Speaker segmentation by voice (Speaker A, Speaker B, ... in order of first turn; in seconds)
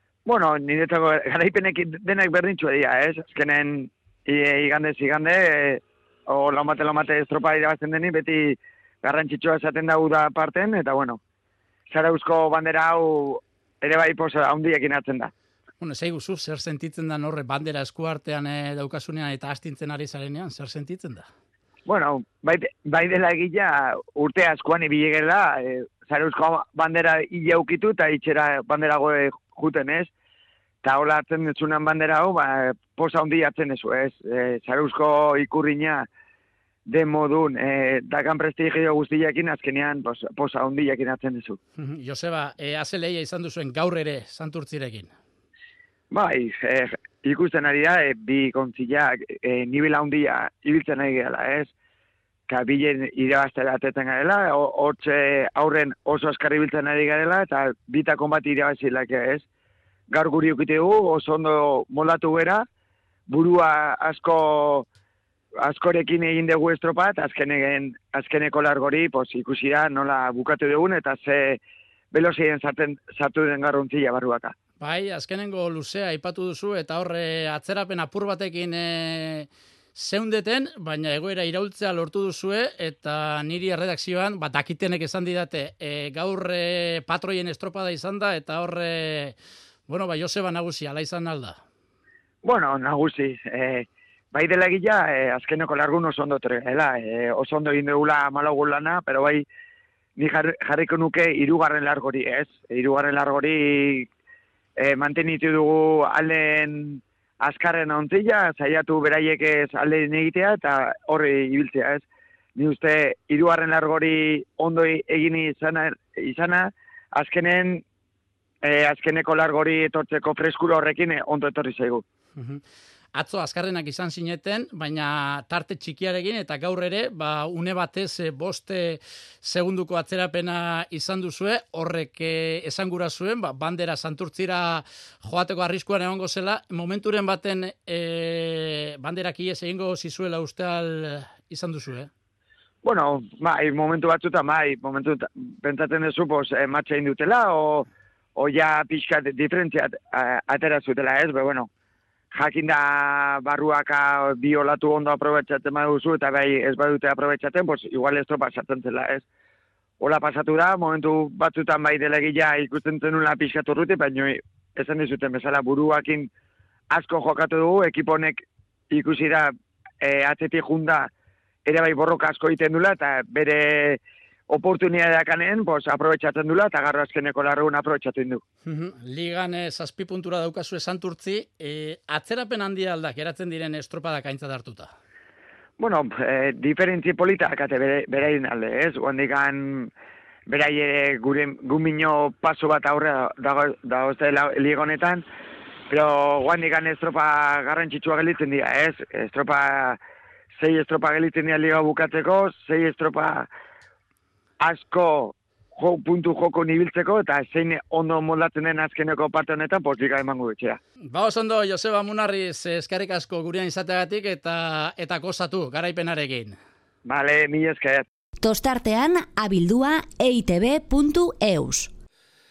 Speaker A: 0.2-11.2, 11.9-15.3, 21.9-30.1, 30.8-36.1, 36.9-41.6, 46.1-51.7, 52.5-59.5, 60.1-62.6, 63.3-64.9, 65.6-71.6, 72.1-74.5, 92.4-99.5, 100.2-104.1, 104.8-117.8, 118.6-122.0, 142.8-151.7, 152.3-159.2, 160.0-166.3, 166.9-171.1, 171.7-178.4, 185.8-189.9, 190.5-195.2, 195.9-200.0, 200.6-203.5, 204.6-210.8, 217.0-218.1
Speaker B: 15.8-21.3, 41.8-45.1, 74.8-89.3, 89.9-91.6, 122.3-122.6, 123.1-142.1, 178.7-184.9, 211.1-216.6
Speaker C: 218.4-221.9